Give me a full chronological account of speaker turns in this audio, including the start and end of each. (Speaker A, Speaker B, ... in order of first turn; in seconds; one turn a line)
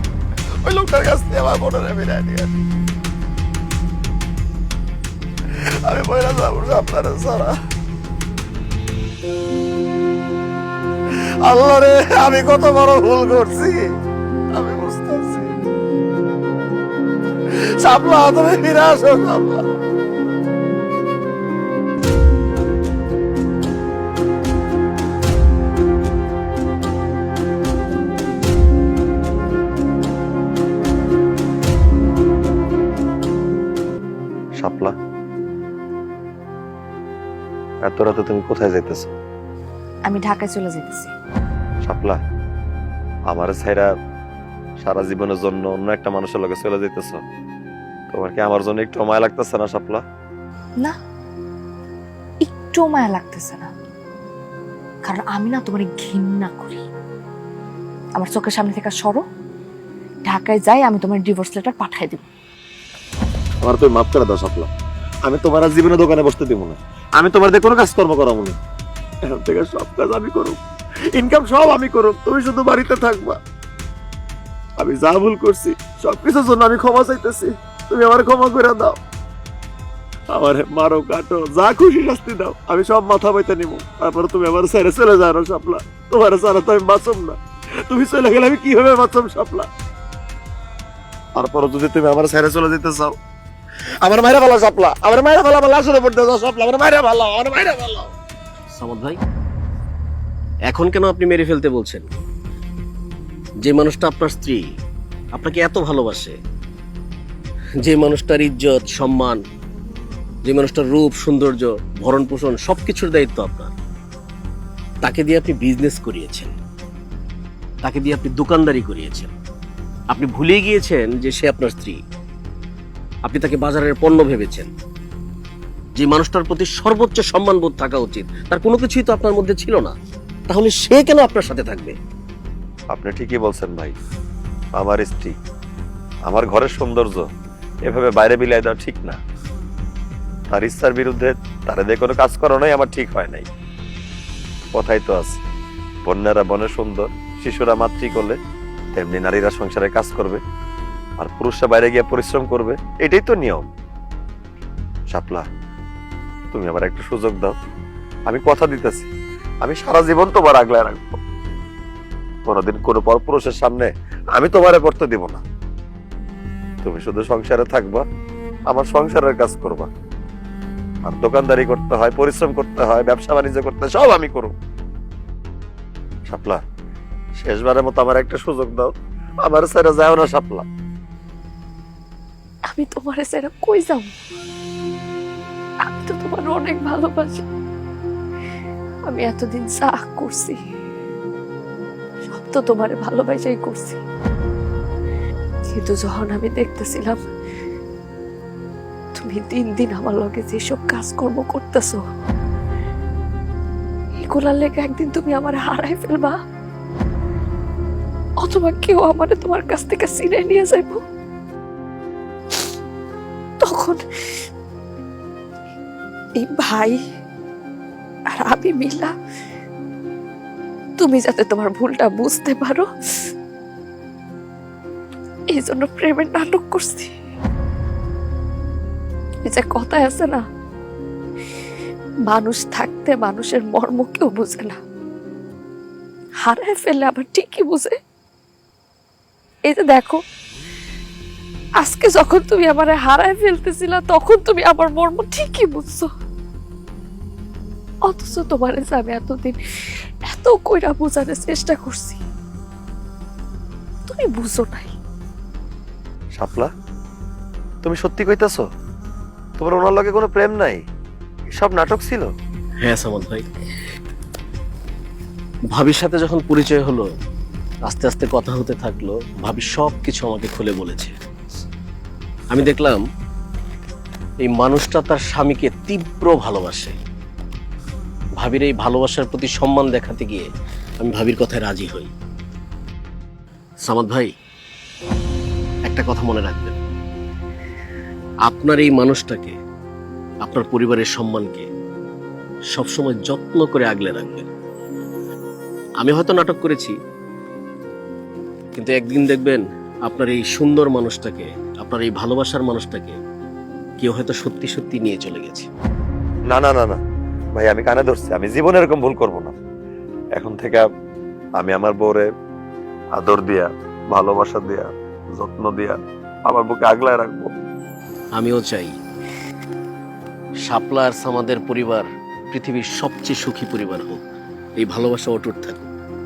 Speaker A: 0.6-2.5
Speaker A: 5.8-7.5
Speaker A: 11.4-13.9
Speaker A: 14.5-15.5
Speaker A: 17.8-19.6
Speaker A: 34.6-34.9
Speaker A: 37.8-39.1
Speaker B: 40.1-41.1
Speaker A: 41.8-42.2
Speaker A: 43.3-43.9
Speaker A: 44.8-47.2
Speaker A: 48.1-50.0
Speaker B: 52.4-53.7
Speaker B: 55.0-56.8
Speaker B: 58.2-59.2
Speaker B: 60.2-62.3
Speaker A: 63.6-64.7
Speaker A: 65.2-68.6
Speaker A: 69.3-70.6
Speaker A: 71.2-73.4
Speaker A: 74.8-79.0
Speaker A: 80.3-87.4
Speaker A: 87.9-89.7
Speaker A: 91.4-93.2
Speaker A: 94.0-98.1
Speaker C: 98.7-99.2
Speaker C: 100.7-102.1
Speaker C: 103.6-104.6
Speaker C: 105.3-106.3
Speaker C: 107.8-109.4
Speaker C: 110.4-113.7
Speaker C: 115.0-116.5
Speaker C: 117.8-119.3
Speaker C: 120.1-122.0
Speaker C: 123.2-124.7
Speaker C: 126.0-129.9
Speaker C: 130.5-131.9
Speaker A: 132.9-133.9
Speaker A: 134.7-135.3
Speaker A: 136.3-137.3
Speaker A: 137.8-139.2
Speaker A: 140.5-143.5
Speaker A: 144.7-145.4
Speaker A: 146.1-148.4
Speaker A: 148.9-150.4
Speaker A: 151.2-153.7
Speaker A: 155.1-155.4
Speaker A: 156.5-157.6
Speaker A: 158.3-159.1
Speaker A: 159.6-161.2
Speaker A: 162.4-165.4
Speaker A: 166.8-168.0
Speaker A: 168.7-169.9
Speaker A: 171.0-174.6
Speaker A: 176.3-176.6
Speaker A: 177.4-180.7
Speaker D: 182.7-184.1
Speaker D: 185.8-187.4
Speaker D: 189.1-190.6
Speaker D: 192.3-194.0
Speaker D: 195.7-197.2
Speaker D: 199.2-202.0
Speaker D: 204.2-206.4
Speaker D: 208.4-211.0
Speaker D: 213.6-214.0
Speaker D: 216.4-217.0
Speaker D: 218.3-219.1
Speaker D: 221.0-222.9
Speaker D: 225.5-227.1
Speaker D: 229.4-230.4
Speaker D: 232.3-234.8
Speaker D: 236.4-237.9
Speaker D: 239.7-240.2
Speaker D: 241.8-246.1
Speaker D: 248.0-249.6
Speaker D: 250.3-252.2
Speaker D: 254.1-254.9
Speaker A: 256.3-256.7
Speaker A: 257.8-258.6
Speaker A: 259.6-260.8
Speaker A: 261.5-262.3
Speaker C: 262.8-263.4
Speaker C: 265.7-267.1
Speaker C: 267.9-271.1
Speaker C: 272.5-273.0
Speaker C: 274.4-277.0
Speaker C: 278.4-280.5
Speaker C: 281.0-282.1
Speaker C: 283.8-284.3
Speaker C: 285.9-286.8
Speaker C: 288.4-289.6
Speaker C: 290.4-291.7
Speaker C: 292.7-294.5
Speaker C: 296.0-296.9
Speaker C: 298.7-303.2
Speaker C: 304.0-305.7
Speaker A: 306.5-307.0
Speaker A: 307.5-309.5
Speaker A: 310.4-310.8
Speaker A: 311.6-312.3
Speaker A: 313.1-317.5
Speaker C: 318.3-318.9
Speaker C: 320.7-324.2
Speaker C: 324.8-325.9